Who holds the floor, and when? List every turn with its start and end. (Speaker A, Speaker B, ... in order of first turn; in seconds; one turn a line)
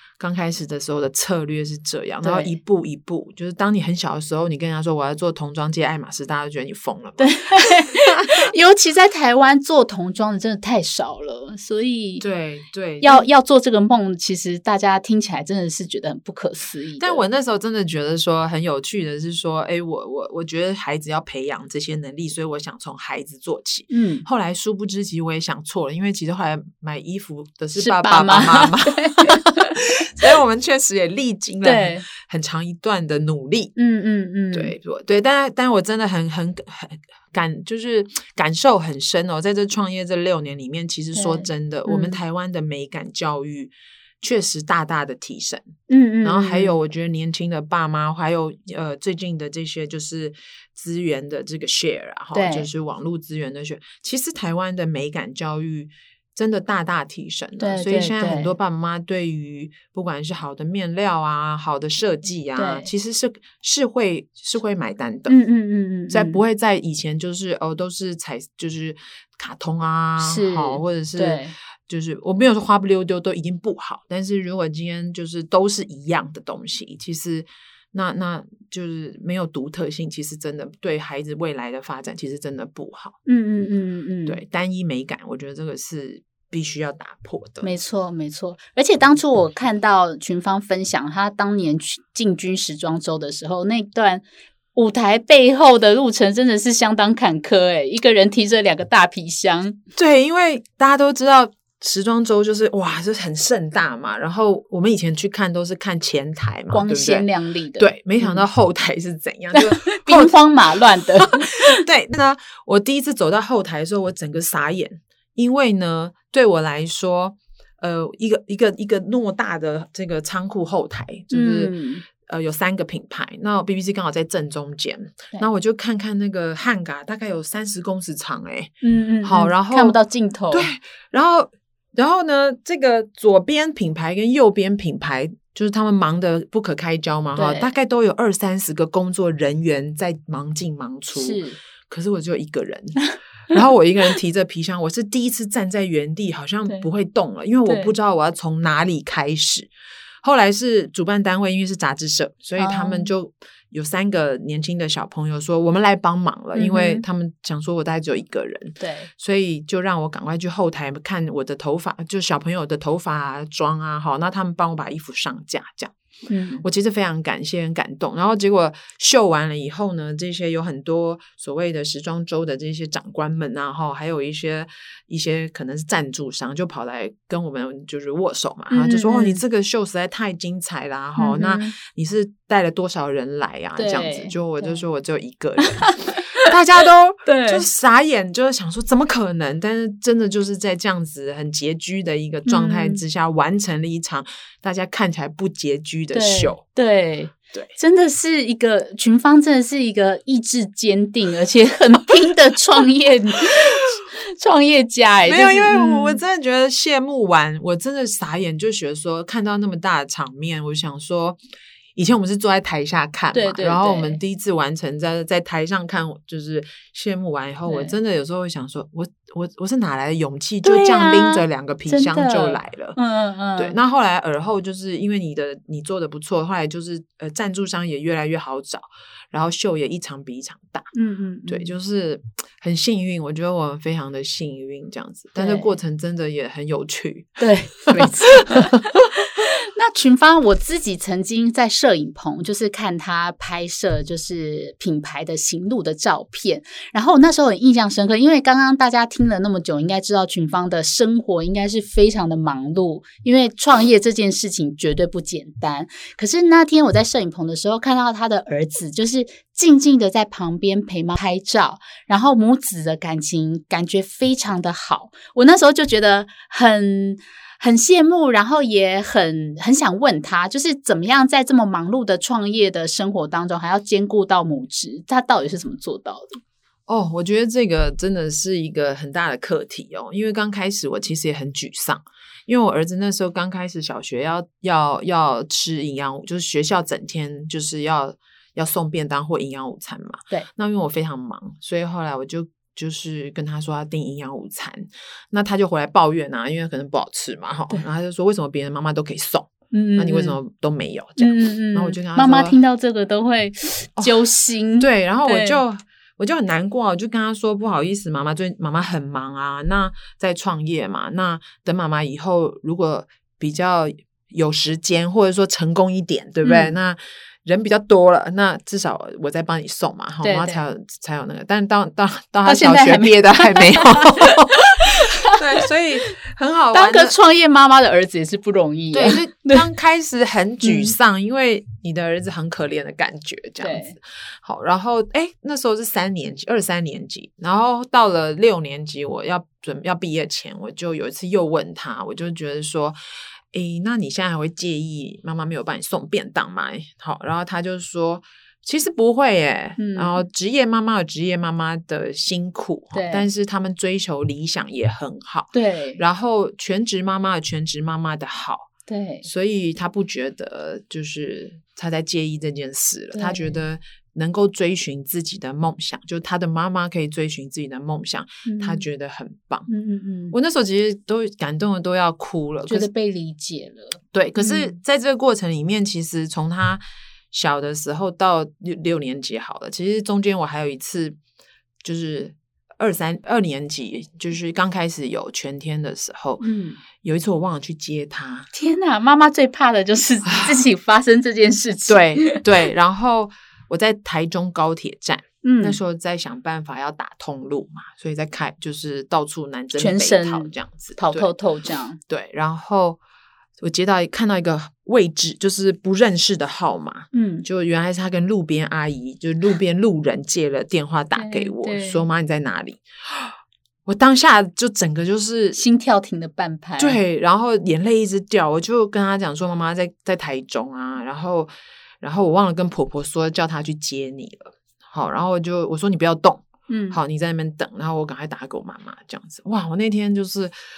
Speaker A: 0.2-8.5
Speaker B: 2.2-2.5
Speaker B: 7.2-12.2
Speaker A: 12.2-13.2
Speaker B: 13.0-17.2
Speaker A: 17.0-33.7
Speaker B: 23.9-24.2
Speaker B: 27.7-29.7
Speaker B: 31.6-32.0
Speaker B: 33.8-34.7
Speaker A: 34.5-65.3
Speaker B: 41.1-42.2
Speaker B: 45.9-46.8
Speaker B: 52.3-52.7
Speaker B: 57.6-58.5
Speaker B: 62.5-62.9
Speaker B: 65.3-66.4
Speaker A: 66.1-83.2
Speaker B: 70.2-71.5
Speaker B: 83.2-84.4
Speaker A: 84.3-87.7
Speaker B: 87.6-99.8
Speaker A: 100.0-107.2
Speaker B: 106.7-108.4
Speaker A: 107.8-110.4
Speaker B: 109.5-111.7
Speaker A: 111.0-128.7
Speaker B: 121.3-122.0
Speaker B: 128.8-130.7
Speaker A: 129.2-130.0
Speaker A: 130.5-149.7
Speaker B: 137.3-137.7
Speaker B: 141.1-141.6
Speaker B: 147.7-147.9
Speaker A: 150.2-165.9
Speaker B: 152.6-153.1
Speaker B: 156.5-157.0
Speaker B: 158.8-159.1
Speaker B: 166.3-166.6
Speaker A: 166.6-196.6
Speaker B: 178.7-179.4
Speaker B: 181.2-181.7
Speaker B: 183.8-184.8
Speaker B: 185.6-186.5
Speaker B: 187.2-187.6
Speaker B: 192.4-193.0
Speaker B: 196.1-206.2
Speaker A: 205.2-211.4
Speaker A: 211.9-223.0
Speaker B: 213.3-214.2
Speaker B: 217.7-217.9
Speaker B: 220.6-223.8
Speaker A: 223.6-230.9
Speaker B: 230.9-231.7
Speaker A: 231.5-239.0
Speaker B: 235.3-235.7
Speaker B: 237.4-276.4
Speaker A: 276.9-302.6
Speaker B: 299.7-300.4
Speaker B: 301.2-305.6
Speaker A: 304.8-327.1
Speaker B: 316.4-316.8
Speaker B: 320.2-320.6
Speaker B: 322.4-326.1
Speaker B: 326.7-329.7
Speaker A: 328.9-343.0
Speaker B: 330.6-330.9
Speaker B: 333.6-333.9
Speaker A: 343.5-358.7
Speaker B: 349.8-350.2
Speaker B: 352.9-353.3
Speaker B: 355.5-356.0
Speaker B: 358.9-359.2
Speaker A: 359.2-369.7
Speaker B: 363.1-363.6
Speaker B: 368.4-368.9
Speaker B: 369.7-370.4
Speaker A: 370.3-372.9
Speaker B: 372.7-374.8
Speaker A: 374.1-381.2
Speaker A: 381.8-386.4
Speaker B: 386.4-386.8
Speaker A: 387.0-388.5
Speaker B: 388.5-392.4
Speaker A: 390.2-390.6
Speaker A: 391.9-401.3
Speaker B: 395.4-395.8
Speaker B: 399.8-402.0
Speaker A: 402.1-403.0
Speaker A: 403.6-415.6
Speaker B: 407.1-407.5
Speaker B: 411.1-412.1
Speaker B: 415.5-417.0
Speaker A: 416.8-430.5
Speaker B: 426.7-427.0